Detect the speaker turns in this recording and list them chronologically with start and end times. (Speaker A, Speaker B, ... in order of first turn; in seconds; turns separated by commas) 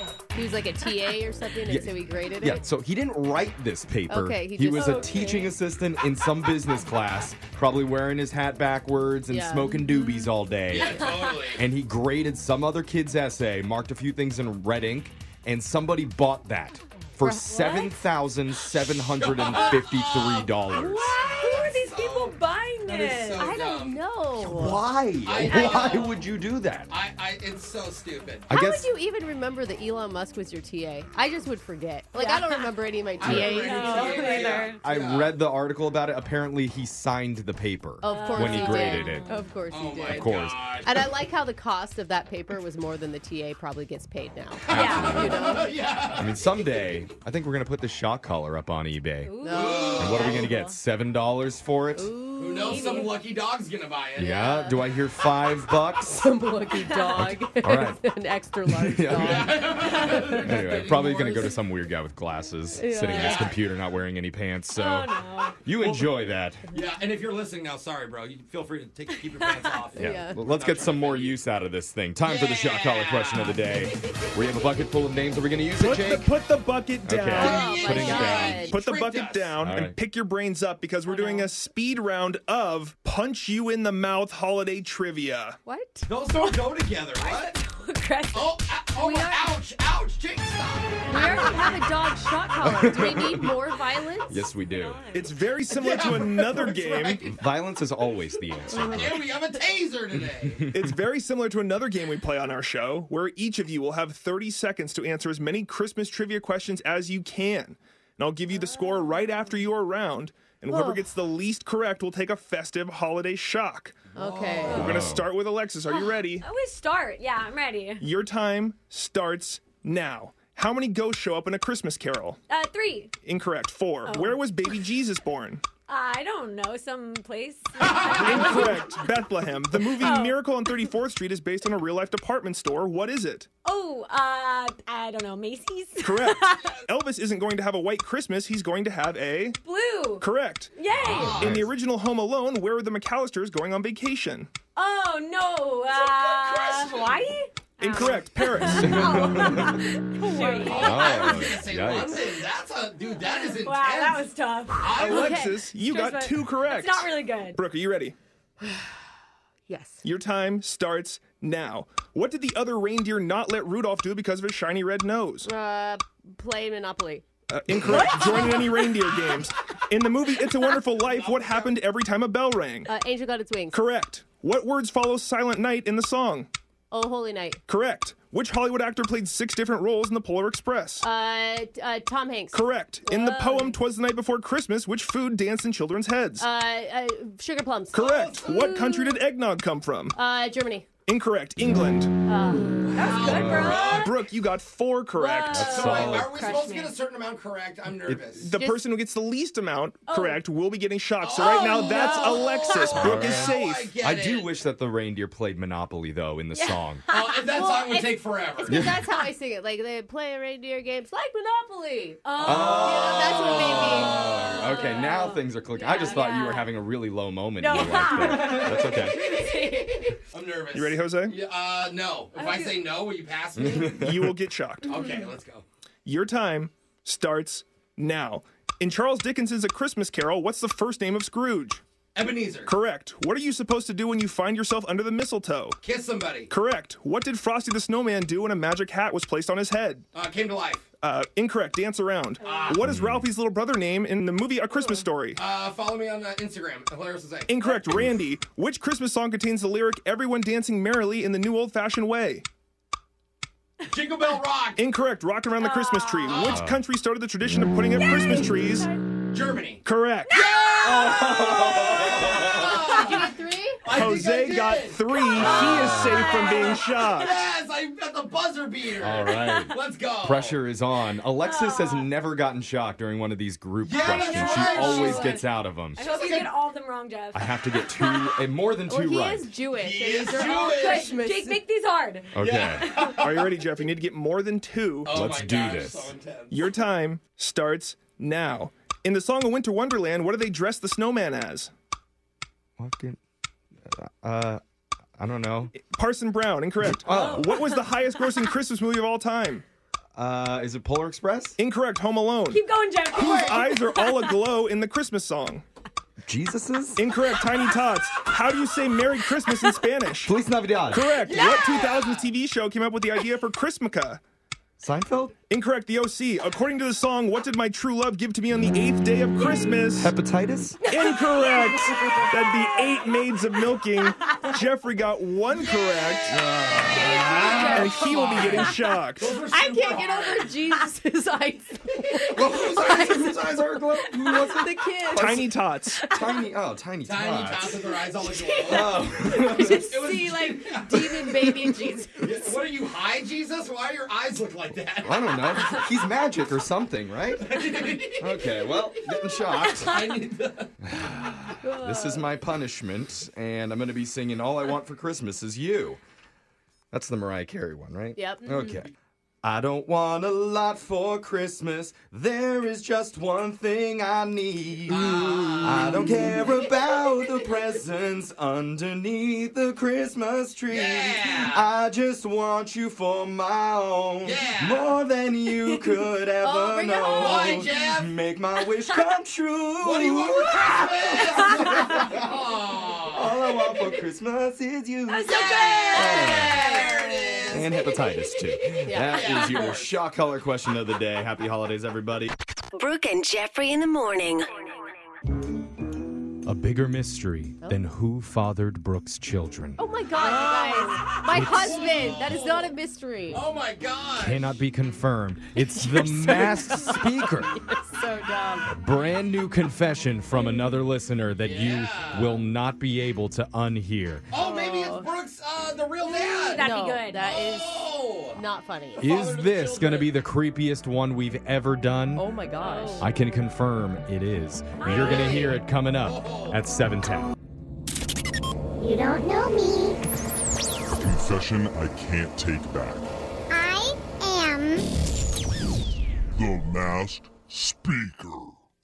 Speaker A: 0.3-2.6, Speaker B: 1.7-21.2, Speaker A: 4.1-5.5, Speaker C: 4.7-5.5, Speaker A: 9.3-10.2, Speaker D: 10.7-11.7, Speaker A: 10.7-11.2, Speaker A: 17.2-18.0, Speaker D: 19.2-20.6, Speaker C: 19.5-19.8, Speaker C: 20.7-23.5, Speaker D: 21.2-24.0, Speaker A: 23.4-24.8, Speaker B: 24.4-26.9, Speaker D: 25.2-26.2, Speaker D: 26.9-28.5, Speaker B: 28.5-28.9, Speaker A: 28.5-34.7, Speaker C: 32.1-34.8, Speaker D: 33.2-35.3, Speaker B: 34.8-39.3, Speaker A: 38.0-45.7, Speaker C: 38.0-39.4, Speaker D: 39.7-41.0, Speaker B: 40.1-40.6, Speaker D: 44.7-46.6, Speaker B: 44.7-45.3, Speaker C: 44.7-45.5, Speaker B: 46.1-49.3, Speaker C: 49.2-50.8, Speaker A: 49.4-50.3, Speaker D: 49.5-50.5, Speaker B: 50.0-52.1, Speaker A: 51.9-53.1, Speaker D: 52.4-54.6, Speaker C: 52.7-53.1, Speaker B: 54.2-56.3, Speaker A: 56.2-60.3, Speaker C: 56.7-57.2, Speaker B: 57.2-58.0, Speaker B: 58.6-65.1, Speaker D: 59.1-61.5, Speaker A: 62.8-63.5, Speaker D: 63.1-63.6, Speaker C: 64.7-65.6, Speaker B: 65.6-66.6, Speaker D: 65.8-66.1, Speaker D: 66.7-71.4, Speaker A: 70.0-70.4, Speaker B: 70.0-76.3, Speaker D: 72.2-73.6, Speaker E: 75.8-77.8, Speaker B: 77.0-78.8, Speaker D: 77.3-79.5, Speaker A: 77.3-78.8, Speaker E: 78.7-85.6, Speaker B: 79.6-80.0, Speaker A: 81.1-81.5, Speaker A: 85.7-86.1, Speaker D: 86.1-87.6, Speaker C: 87.2-89.3, Speaker D: 88.3-91.7, Speaker A: 89.0-89.3, Speaker A: 91.1-94.5, Speaker C: 91.1-92.1, Speaker B: 92.6-93.5, Speaker B: 94.3-95.0, Speaker C: 94.6-95.5, Speaker E: 95.1-97.2, Speaker D: 95.7-97.3, Speaker B: 97.2-99.3, Speaker D: 98.7-100.7, Speaker B: 100.2-100.9, Speaker E: 100.7-114.0, Speaker C: 108.5-109.6, Speaker A: 110.7-111.1, Speaker D: 114.1-114.7, Speaker A: 114.1-114.9, Speaker C: 114.6-115.0, Speaker B: 114.7-115.3, Speaker E: 114.7-116.5, Speaker C: 115.8-118.0, Speaker E: 118.0-122.4, Speaker C: 122.5-123.1, Speaker E: 123.2-125.6, Speaker C: 124.0-124.8, Speaker C: 125.9-130.9, Speaker D: 127.8-128.7, Speaker E: 128.0-133.5, Speaker C: 133.6-136.8, Speaker E: 136.0-139.6, Speaker D: 136.5-136.8, Speaker C: 139.6-141.5, Speaker E: 140.2-140.7, Speaker B: 141.0-141.6, Speaker D: 141.1-141.6, Speaker E: 141.3-144.5, Speaker C: 144.7-151.6, Speaker D: 145.9-147.3, Speaker E: 147.8-149.2, Speaker B: 148.7-149.8, Speaker A: 150.2-151.2, Speaker D: 150.6-155.5, Speaker B: 150.8-152.2, Speaker C: 152.2-152.4, Speaker C: 153.2-157.6, Speaker E: 154.9-158.2, Speaker A: 159.7-160.0, Speaker E: 160.0-165.5, Speaker A: 165.4-167.2, Speaker E: 167.5-172.9, Speaker C: 167.7-169.4, Speaker A: 167.9-168.5, Speaker D: 171.0-171.7, Speaker A: 172.8-173.8, Speaker E: 173.7-176.5, Speaker A: 176.9-177.6, Speaker E: 177.7-181.0, Speaker A: 181.0-182.6, Speaker E: 182.5-186.4, Speaker C: 183.0-183.7, Speaker A: 186.4-189.2, Speaker E: 187.9-190.2, Speaker A: 190.1-190.8, Speaker E: 191.1-192.1, Speaker A: 192.3-193.1, Speaker C: 192.5-194.3, Speaker D: 192.8-194.1, Speaker B: 193.2-193.8, Speaker E: 193.8-195.7, Speaker C: 195.1-196.9, Speaker B: 195.5-196.4, Speaker D: 195.6-198.5, Speaker B: 198.1-198.4, Speaker E: 198.4-203.9, Speaker C: 198.5-198.8, Speaker C: 200.1-200.4, Speaker D: 201.2-204.5, Speaker C: 201.4-202.9, Speaker B: 202.9-207.0, Speaker C: 206.5-207.9, Speaker D: 207.1-208.9, Speaker A: 207.5-214.2, Speaker B: 208.7-209.0, Speaker C: 212.2-216.7, Speaker B: 212.4-219.2, Speaker C: 217.6-220.2, Speaker D: 220.3-224.1, Speaker E: 220.7-221.3, Speaker C: 222.3-222.8, Speaker B: 223.6-224.3, Speaker E: 223.9-224.9, Speaker D: 224.8-225.6, Speaker C: 224.9-225.2, Speaker E: 226.1-231.8, Speaker D: 232.1-232.7, Speaker E: 232.6-235.8, Speaker D: 235.8-236.5, Speaker E: 236.5-240.0, Speaker D: 240.1-240.8, Speaker E: 241.0-245.4, Speaker C: 242.4-242.7, Speaker D: 242.4-242.8, Speaker B: 242.8-243.3, Speaker D: 245.3-247.6, Speaker E: 247.5-252.4, Speaker D: 253.8-254.8, Speaker E: 254.8-258.9, Speaker C: 255.6-256.4, Speaker D: 256.2-256.6, Speaker B: 256.5-256.8, Speaker B: 257.4-257.7, Speaker C: 258.0-258.9, Speaker D: 259.3-263.3, Speaker E: 259.8-260.3, Speaker C: 260.3-261.2, Speaker B: 260.8-262.8, Speaker C: 262.8-263.1, Speaker A: 262.9-263.8, Speaker D: 263.8-265.8, Speaker E: 263.9-267.3, Speaker C: 265.1-267.2, Speaker B: 265.6-266.3, Speaker D: 266.3-270.6, Speaker B: 269.0-276.0, Speaker C: 269.3-269.7, Speaker C: 271.4-272.1, Speaker D: 273.8-275.4, Speaker C: 273.9-278.4, Speaker D: 276.1-276.4, Speaker B: 277.3-279.5, Speaker A: 278.9-281.6, Speaker D: 279.7-281.2, Speaker C: 280.5-283.2, Speaker B: 282.3-282.9, Speaker D: 282.4-283.5, Speaker E: 283.2-285.2, Speaker D: 285.1-286.6, Speaker B: 285.1-286.1, Speaker E: 286.5-291.7, Speaker B: 292.8-293.2, Speaker B: 293.8-294.6, Speaker B: 295.2-295.7, Speaker E: 295.7-299.6, Speaker B: 296.8-297.6, Speaker C: 297.0-298.5, Speaker B: 300.1-301.6, Speaker E: 301.6-305.6, Speaker C: 302.5-304.4, Speaker B: 306.2-307.1, Speaker E: 307.0-310.3, Speaker C: 309.5-309.8, Speaker B: 310.2-311.2, Speaker E: 310.9-314.2, Speaker C: 311.2-312.0, Speaker D: 311.2-312.3, Speaker B: 314.8-315.4, Speaker E: 315.5-320.1, Speaker B: 319.8-320.8, Speaker C: 320.9-323.1, Speaker E: 320.9-326.3, Speaker C: 324.2-324.5, Speaker C: 325.6-326.2, Speaker B: 326.3-327.6, Speaker C: 326.8-328.9, Speaker D: 327.3-330.5, Speaker E: 327.6-329.4, Speaker A: 329.5-333.6, Speaker B: 332.3-335.5, Speaker A: 334.1-335.4, Speaker E: 335.1-336.0, Speaker B: 336.0-337.8, Speaker D: 337.0-341.2, Speaker B: 338.6-340.0, Speaker A: 338.9-342.5, Speaker D: 342.2-345.6, Speaker B: 345.0-350.1, Speaker D: 347.4-349.2, Speaker C: 349.7-350.0, Speaker D: 349.7-350.7, Speaker B: 350.8-356.0, Speaker A: 351.6-352.2, Speaker B: 356.9-358.9, Speaker A: 358.2-358.8, Speaker B: 359.4-382.4, Speaker D: 364.9-366.2, Speaker D: 370.7-371.6, Speaker D: 374.2-374.9, Speaker A: 376.4-377.7, Speaker D: 377.0-378.1, Speaker D: 379.8-383.4, Speaker B: 383.1-386.6, Speaker C: 385.1-387.4, Speaker D: 385.2-387.7, Speaker B: 387.5-392.3, Speaker A: 388.8-389.2, Speaker D: 389.1-389.9, Speaker C: 389.3-389.6, Speaker F: 392.7-394.9, Speaker B: 396.4-399.8, Speaker A: 399.8-403.4, Speaker D: 400.2-402.7, Speaker B: 401.3-401.7, Speaker D: 403.3-404.5, Speaker B: 404.2-407.5, Speaker A: 405.6-408.7, Speaker B: 408.7-414.3, Speaker D: 411.4-412.4, Speaker D: 414.3-416.7, Speaker A: 414.4-415.1, Speaker C: 416.0-417.2, Speaker A: 416.6-417.8, Speaker D: 417.2-418.4, Speaker A: 418.3-419.0, Speaker D: 418.9-420.1, Speaker B: 419.0-422.2, Speaker A: 422.1-423.1, Speaker C: 422.6-423.1, Speaker B: 423.0-427.3, Speaker C: 424.8-425.4, Speaker D: 424.8-426.6, Speaker G: 428.8-430.0, Speaker H: 430.9-433.1, Speaker G: 433.5-434.8, Speaker H: 436.3-438.6